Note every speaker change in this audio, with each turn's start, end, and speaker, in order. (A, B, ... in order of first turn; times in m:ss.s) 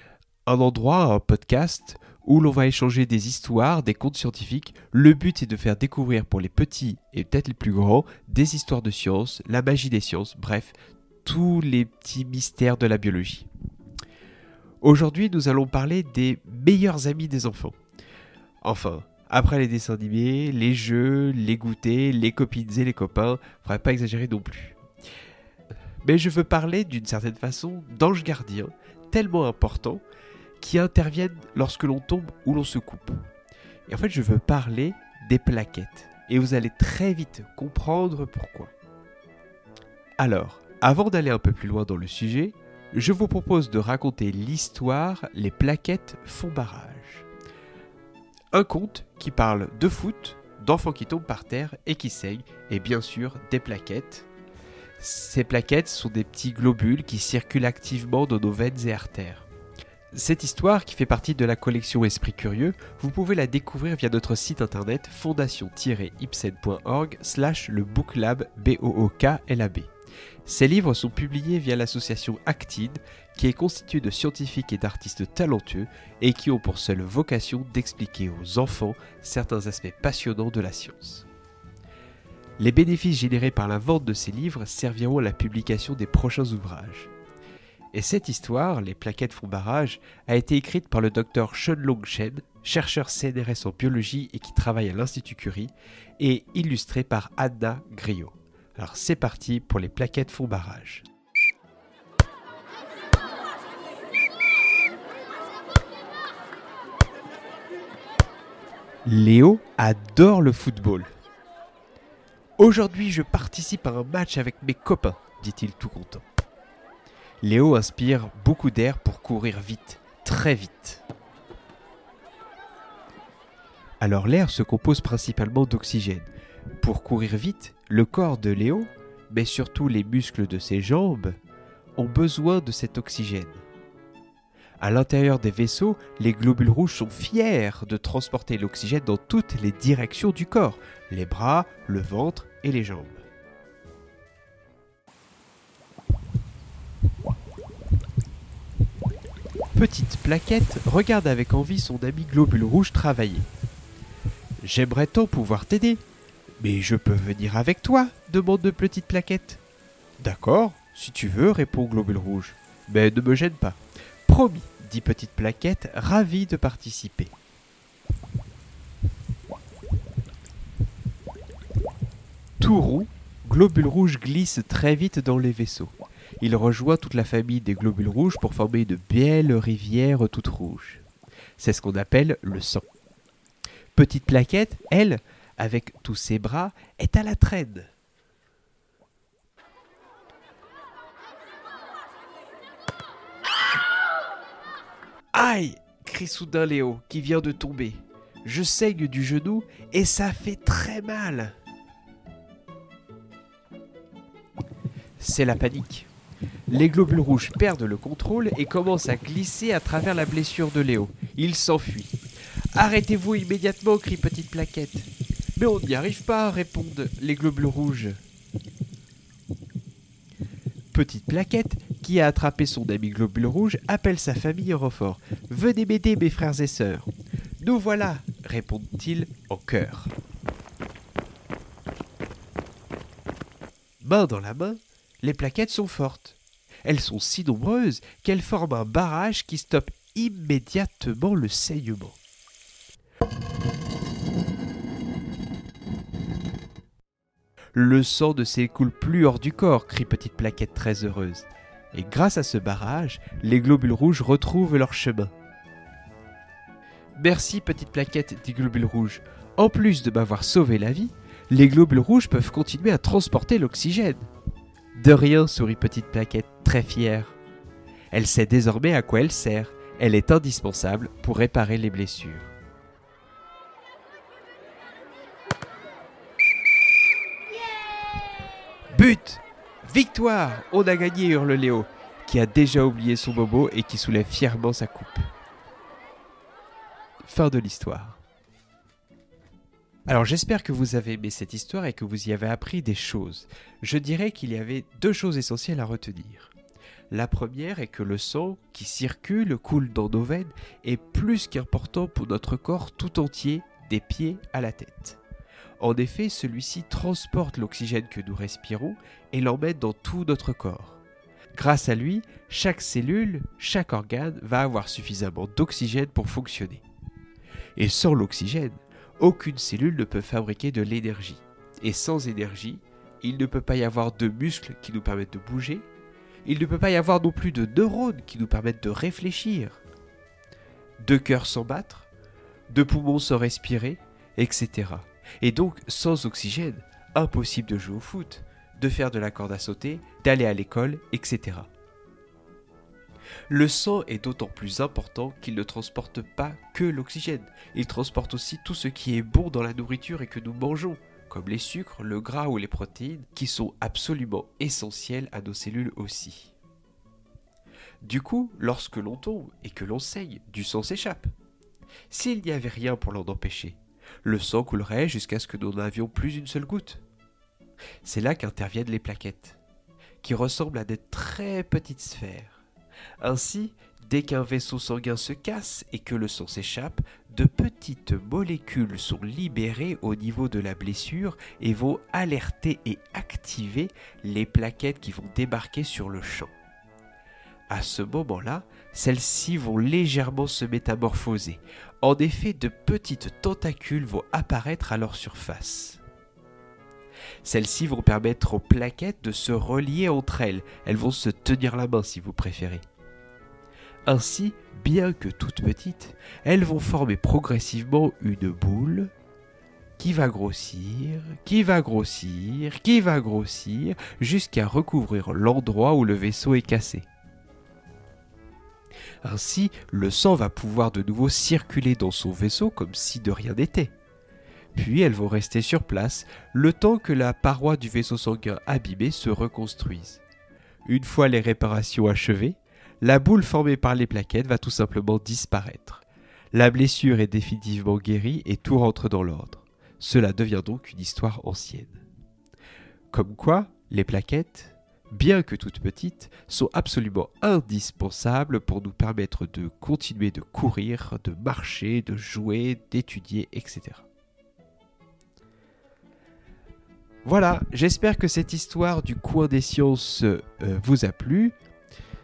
0:00.4-0:13.5 A
0:14.8-0:17.8 A
0:18.6-0:24.8 A
0:26.0-0:30.0 A
0:30.6-0:33.2 A
0:33.9-0:38.7 A
0:40.2-0:47.3 A
0:48.5-0:54.3 A
0:55.0-0:59.5 A
1:00.1-1:09.9 A
1:10.4-1:21.2 A
1:22.6-1:27.1 A
1:27.9-1:41.0 A
1:49.0-1:51.1 A
1:52.6-1:56.2 A
1:57.4-2:01.0 A
2:04.0-2:06.3 A
2:06.8-2:11.4 A
2:12.0-2:13.6 A
2:14.8-2:23.2 A
2:29.7-2:33.5 A
2:34.6-2:36.0 A
2:36.6-2:39.6 A
2:40.2-2:47.3 A
2:52.6-3:01.0 A
3:01.6-3:02.8 A
3:03.9-3:07.9 A
3:15.3-3:21.5 A
3:25.2-3:26.1 A
3:26.7-3:32.2 A
3:32.7-3:38.2 A
3:40.9-3:47.1 A
3:47.6-3:50.1 A
3:54.0-4:02.2 A
4:07.7-4:15.3 A
4:17.2-4:24.3 A
4:25.0-4:27.4 A
4:28.1-4:32.5 A
4:38.9-4:45.3 A
4:47.2-4:48.2 A
4:50.1-4:56.5 A
4:57.1-5:05.2 A
5:05.8-5:11.0 A
5:11.5-5:16.8 A
5:17.8-5:25.9 A
5:26.4-5:29.8 A
5:31.0-5:32.1 A
5:32.7-5:41.7 A
5:43.5-5:56.5 A
5:58.0-6:01.3 A
6:02.1-6:07.0 A
6:08.0-6:09.6 A
6:10.2-6:12.6 A
6:13.2-6:26.5 A
6:27.7-6:36.0 A
6:37.4-6:42.8 A
6:44.0-6:49.1 A
6:50.0-6:57.1 A
6:59.2-7:03.9 A
7:04.7-7:10.2 A
7:10.8-7:22.0 A
7:23.1-7:34.0 A
7:37.2-7:41.5 A